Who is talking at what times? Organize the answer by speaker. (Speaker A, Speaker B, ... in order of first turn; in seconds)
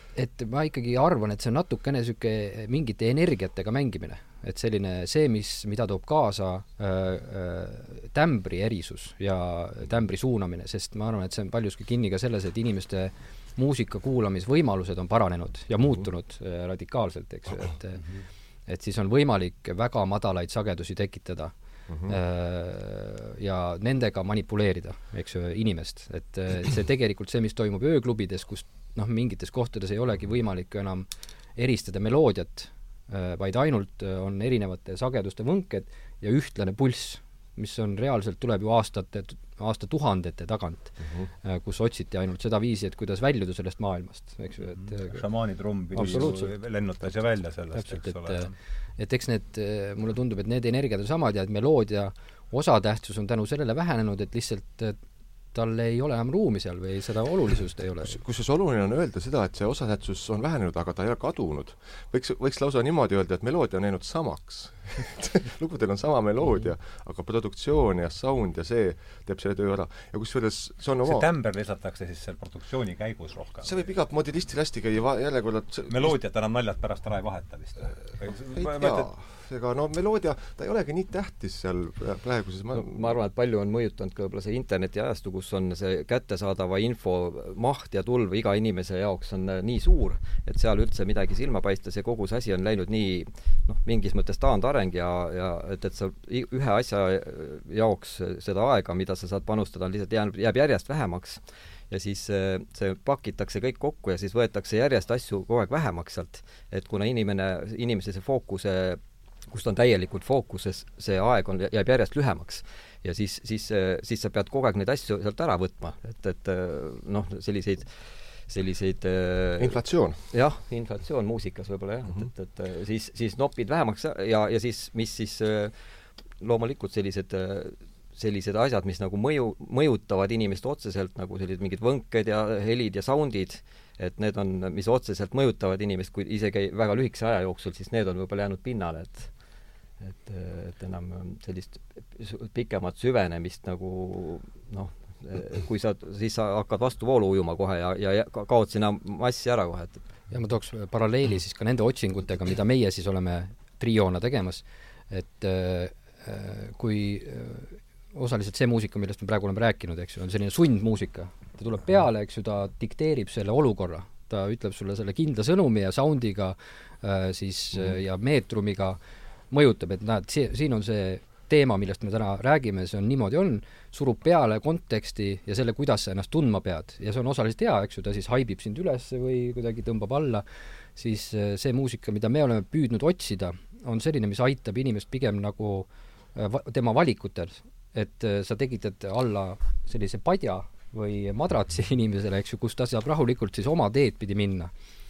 Speaker A: 0.1-46.6, 47.7-58.2, 150.3-194.7
Speaker B: 21.9-22.2, 41.0-41.3, 45.9-46.4, 58.0-71.3, 73.6-76.2, 78.5-83.1, 119.6-120.3
Speaker C: 44.6-48.5, 71.0-73.9, 75.9-79.1
Speaker D: 82.7-150.2